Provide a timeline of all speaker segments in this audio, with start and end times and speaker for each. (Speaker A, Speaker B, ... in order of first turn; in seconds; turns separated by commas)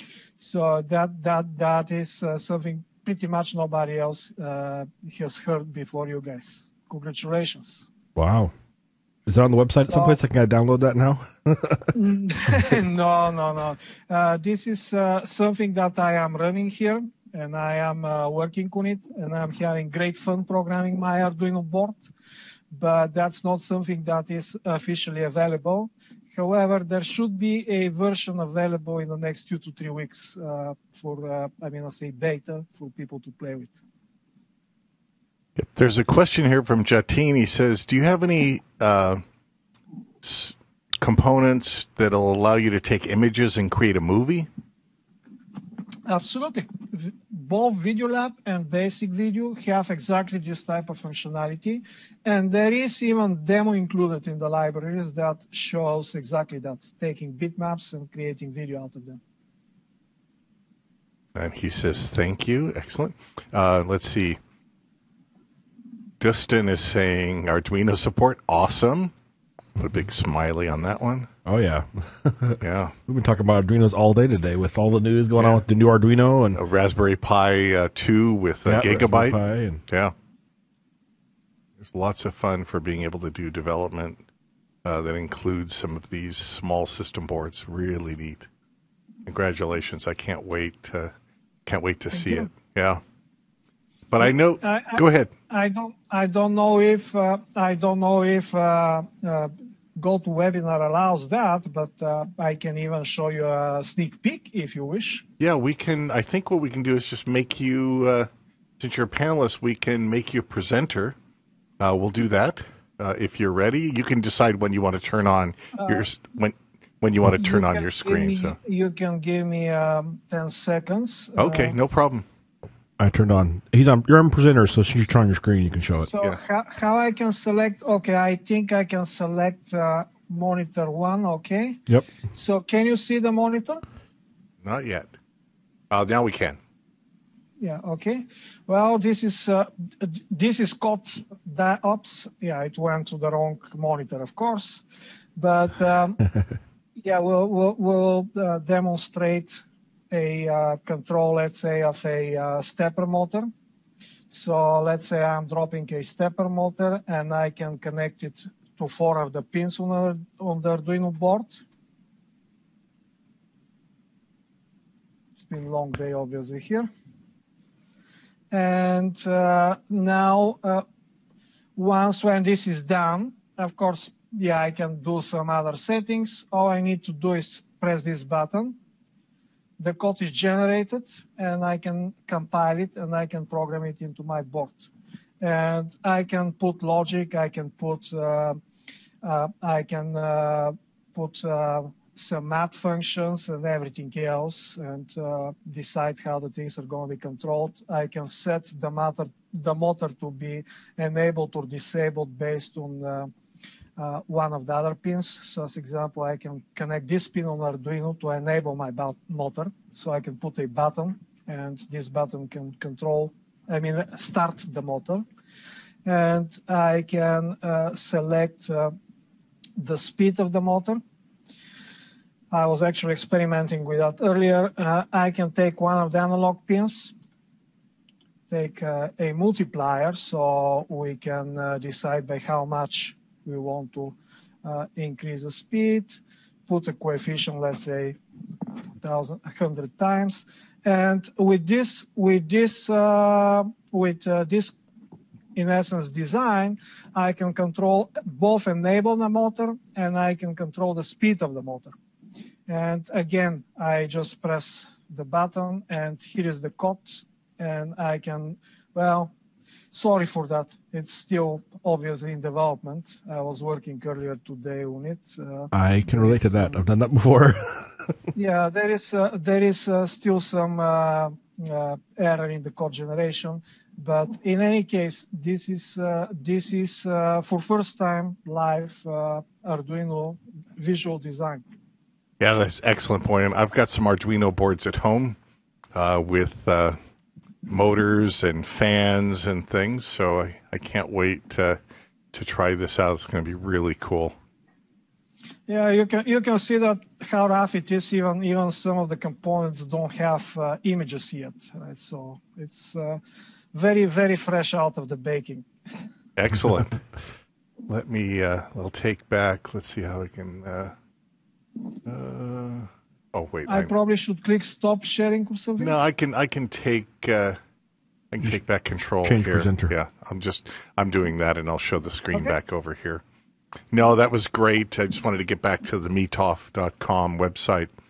Speaker A: 0.4-7.9, Speaker B: 8.2-8.5, Speaker B: 9.3-11.9, Speaker A: 9.8-10.2, Speaker A: 11.9-22.1, Speaker A: 22.7-33.8, Speaker C: 35.5-39.2, Speaker C: 40.2-44.5, Speaker A: 46.1-59.2, Speaker C: 61.3-64.4, Speaker C: 66.2-69.1, Speaker C: 69.8-71.3, Speaker B: 71.5-76.6, Speaker C: 72.6-73.0, Speaker C: 75.4-75.6, Speaker C: 76.5-80.1, Speaker B: 78.6-79.8, Speaker C: 81.8-84.2, Speaker C: 84.8-88.5, Speaker C: 89.2-91.1, Speaker C: 91.7-93.0, Speaker A: 92.1-92.5, Speaker C: 94.1-95.3, Speaker A: 94.2-105.2, Speaker C: 105.4-111.2, Speaker C: 111.8-118.6, Speaker A: 115.8-116.0, Speaker A: 117.3-121.7, Speaker C: 121.4-122.2, Speaker B: 123.0-126.1, Speaker A: 126.0-133.8, Speaker C: 134.6-135.1, Speaker C: 135.9-136.6, Speaker A: 137.6-144.8, Speaker A: 145.3-146.3, Speaker A: 147.0-153.5, Speaker A: 154.3-161.6, Speaker A: 165.4-166.9, Speaker A: 168.5-170.8, Speaker A: 171.8-178.8, Speaker A: 179.8-184.9, Speaker A: 185.4-188.6, Speaker A: 189.2-203.3, Speaker A: 204.0-215.2, Speaker A: 216.0-218.9, Speaker A: 219.8-221.0, Speaker A: 222.5-227.1, Speaker A: 228.5-238.2, Speaker A: 239.0-244.7, Speaker A: 245.5-251.9, Speaker A: 252.7-259.3, Speaker A: 259.9-266.8, Speaker B: 265.7-268.1, Speaker A: 268.3-281.6, Speaker C: 282.4-285.4, Speaker C: 285.9-287.0, Speaker C: 287.7-291.8, Speaker C: 292.3-294.4, Speaker A: 295.7-303.2, Speaker A: 303.7-305.6, Speaker C: 306.4-307.0, Speaker C: 307.9-310.9, Speaker C: 312.0-313.9, Speaker A: 313.7-316.0, Speaker C: 315.8-317.6, Speaker C: 318.3-323.2, Speaker B: 319.2-319.9, Speaker C: 323.9-327.9